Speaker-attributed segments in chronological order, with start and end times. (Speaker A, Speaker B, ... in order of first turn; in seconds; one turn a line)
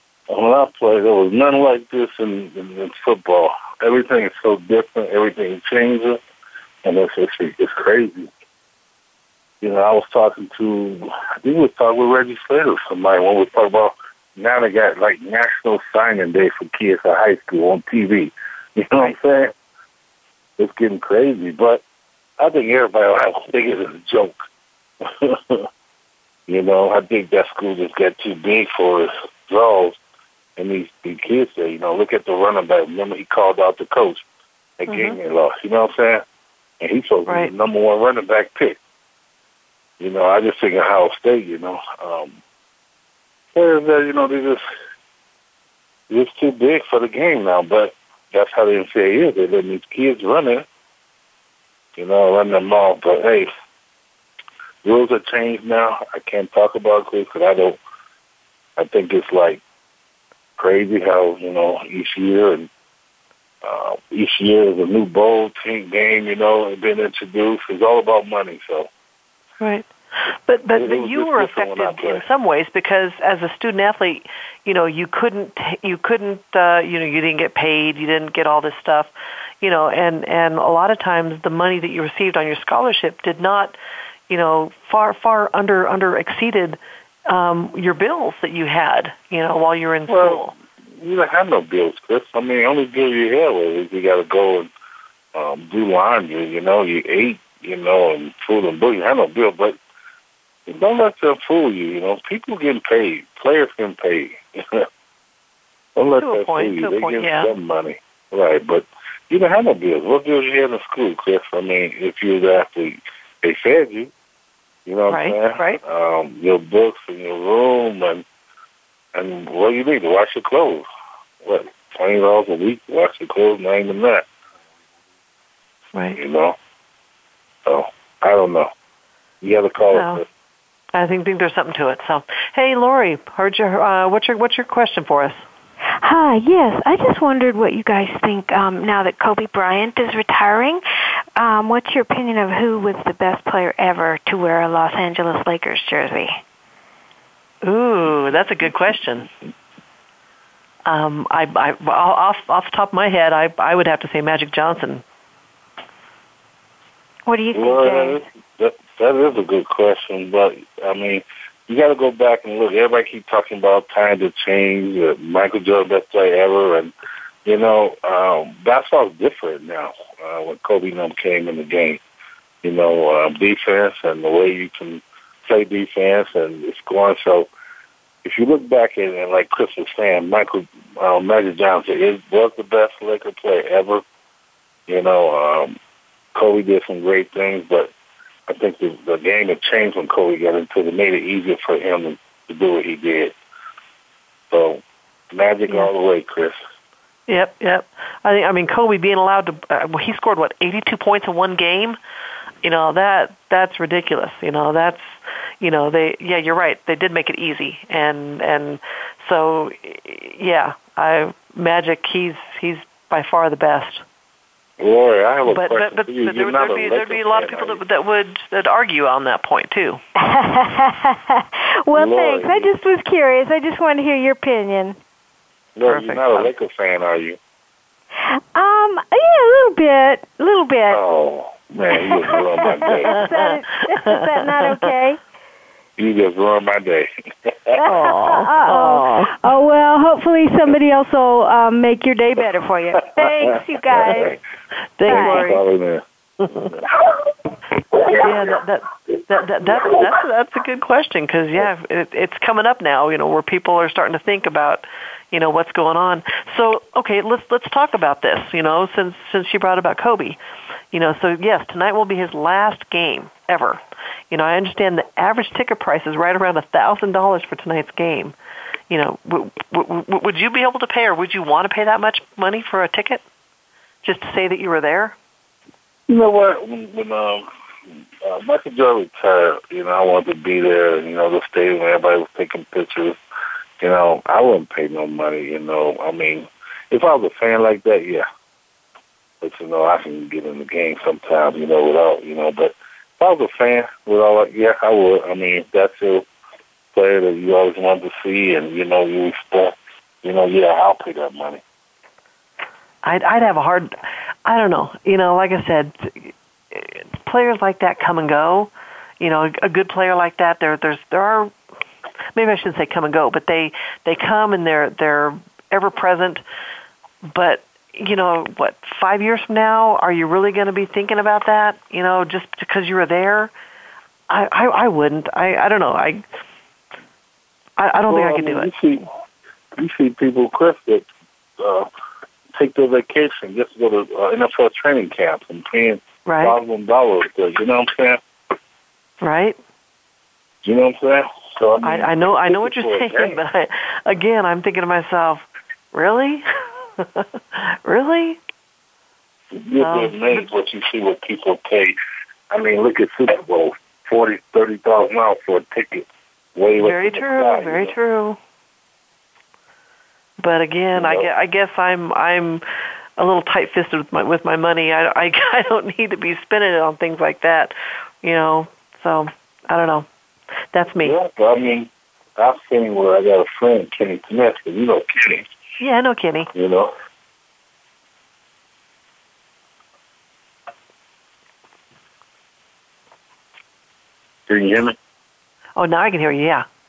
Speaker A: 0.3-6.2
Speaker A: 6.8-8.3
Speaker A: 9.6-19.5
Speaker A: 20.6-21.8
Speaker A: 22.4-24.4
Speaker A: 25.0-25.7
Speaker A: 26.5-30.0
Speaker A: 30.6-34.2
Speaker A: 34.8-36.2
Speaker B: 34.9-35.2
Speaker A: 36.8-38.8
Speaker B: 37.3-37.5
Speaker A: 40.0-42.4
Speaker A: 43.5-44.6
Speaker A: 46.1-50.6
Speaker A: 52.0-53.5
Speaker A: 54.9-57.8
Speaker A: 58.8-59.6
Speaker A: 60.6-62.7
Speaker A: 63.6-68.9
Speaker B: 69.6-79.1
Speaker A: 70.7-72.2
Speaker B: 79.6-83.8
Speaker B: 84.3-90.5
Speaker A: 90.1-94.7
Speaker A: 95.3-99.8
Speaker A: 100.7-104.9
Speaker A: 106.0-114.1
Speaker B: 106.2-107.5
Speaker A: 114.9-118.2
Speaker B: 115.1-115.8
Speaker A: 119.1-120.9
Speaker A: 121.4-124.2
Speaker A: 126.1-126.6
Speaker A: 127.7-128.7
Speaker A: 129.4-130.2
Speaker B: 129.9-130.2
Speaker B: 130.9-135.4
Speaker C: 136.0-140.8
Speaker C: 141.4-146.4
Speaker B: 147.6-149.3
Speaker B: 150.9-155.0
Speaker C: 157.3-158.2
Speaker A: 157.5-166.9
Speaker A: 167.4-172.0
Speaker A: 172.6-177.5
Speaker A: 178.2-184.0
Speaker A: 184.9-185.8
Speaker A: 186.3-187.9
Speaker A: 188.5-193.3
Speaker A: 194.5-196.6
Speaker B: 197.3-202.0
Speaker B: 202.6-214.0
Speaker A: 214.8-217.8
Speaker B: 215.5-220.0
Speaker C: 220.2-225.0
Speaker A: 221.9-222.7
Speaker A: 225.8-227.4
Speaker B: 225.9-226.5
Speaker C: 228.3-231.0
Speaker A: 230.9-233.2
Speaker C: 231.9-235.2
Speaker B: 233.0-234.9
Speaker A: 236.0-237.8
Speaker C: 237.8-244.4
Speaker B: 237.9-239.4
Speaker A: 243.2-244.3
Speaker B: 245.0-245.6
Speaker C: 245.1-245.6
Speaker A: 245.1-246.0
Speaker A: 247.9-248.6
Speaker B: 248.2-260.4
Speaker B: 260.9-263.8
Speaker B: 264.3-268.4
Speaker B: 268.9-273.2
Speaker B: 274.0-275.1
Speaker A: 276.1-277.5
Speaker A: 278.2-283.2
Speaker A: 283.8-288.2
Speaker A: 289.4-296.2
Speaker A: 296.9-301.6
Speaker B: 303.0-303.9
Speaker B: 304.4-311.5
Speaker B: 312.4-316.4
Speaker B: 317.3-323.5
Speaker B: 324.3-326.2
Speaker B: 327.8-328.7
Speaker A: 328.1-329.1
Speaker A: 329.8-331.1
Speaker A: 331.6-331.9
Speaker A: 332.6-338.2
Speaker B: 336.2-336.6
Speaker B: 339.2-339.6
Speaker A: 340.6-343.4
Speaker B: 341.8-346.5
Speaker B: 347.0-348.4
Speaker A: 349.5-352.0
Speaker B: 349.8-350.5
Speaker A: 352.5-357.9
Speaker B: 356.8-358.4
Speaker B: 360.4-362.6
Speaker A: 360.9-361.3
Speaker B: 363.2-370.1
Speaker B: 370.7-371.1
Speaker A: 371.0-375.4
Speaker B: 375.8-376.5
Speaker A: 376.5-376.9
Speaker A: 384.5-385.0
Speaker B: 385.8-386.6